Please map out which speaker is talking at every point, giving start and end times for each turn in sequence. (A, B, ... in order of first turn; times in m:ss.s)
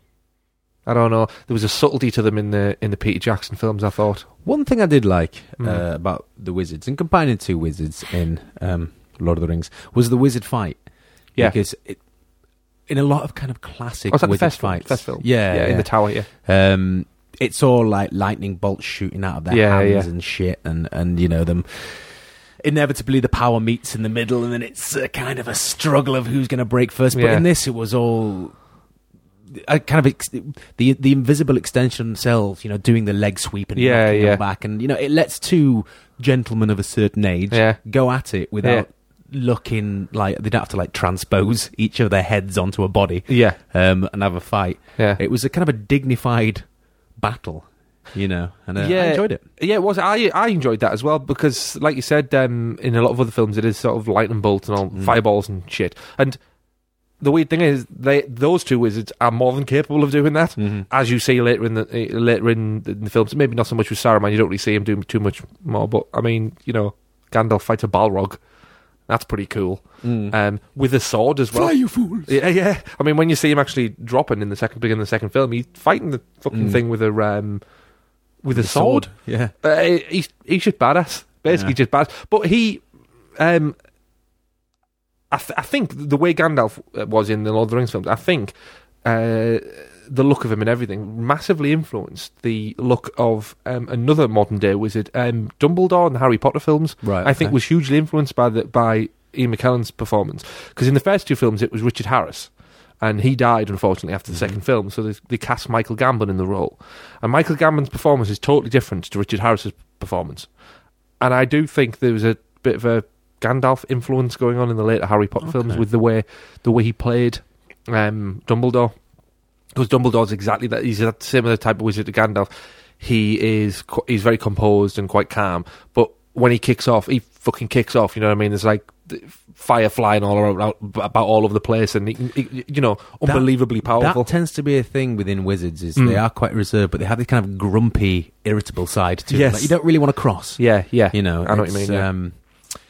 0:00.8-0:04.3 A
0:04.4-0:10.8 B
0:11.4-0:12.0 B
0:12.9-0:28.6 B
0:14.1-0:16.3 A
0:19.5-0:20.1 A
0:27.1-0:27.4 A
0:29.5-0:46.6 B
0:33.7-0:34.4 A
0:37.5-0:37.8 A
0:43.3-0:43.6 A
0:47.2-0:49.4 B
0:48.8-0:56.4 A
0:54.9-0:55.2 B
0:57.2-1:08.4 A
1:00.6-1:00.9 B
1:09.1-1:17.7 A
1:10.0-1:10.4 B
1:11.5-1:12.3 B
1:16.5-1:16.8 B
1:18.4-1:22.8 A
1:18.5-1:19.5 B
1:21.5-1:21.8 B
1:23.4-1:23.8 A
1:25.3-1:50.5 A
1:37.0-1:37.6 B
1:44.3-1:44.6 B
1:51.2-1:58.9 A
1:55.4-1:55.8 B
1:59.7-2:02.5 A
2:03.0-2:14.3 A
2:13.2-2:22.4 B
2:16.0-2:16.2 A
2:19.3-2:19.8 A
2:20.6-2:22.1 A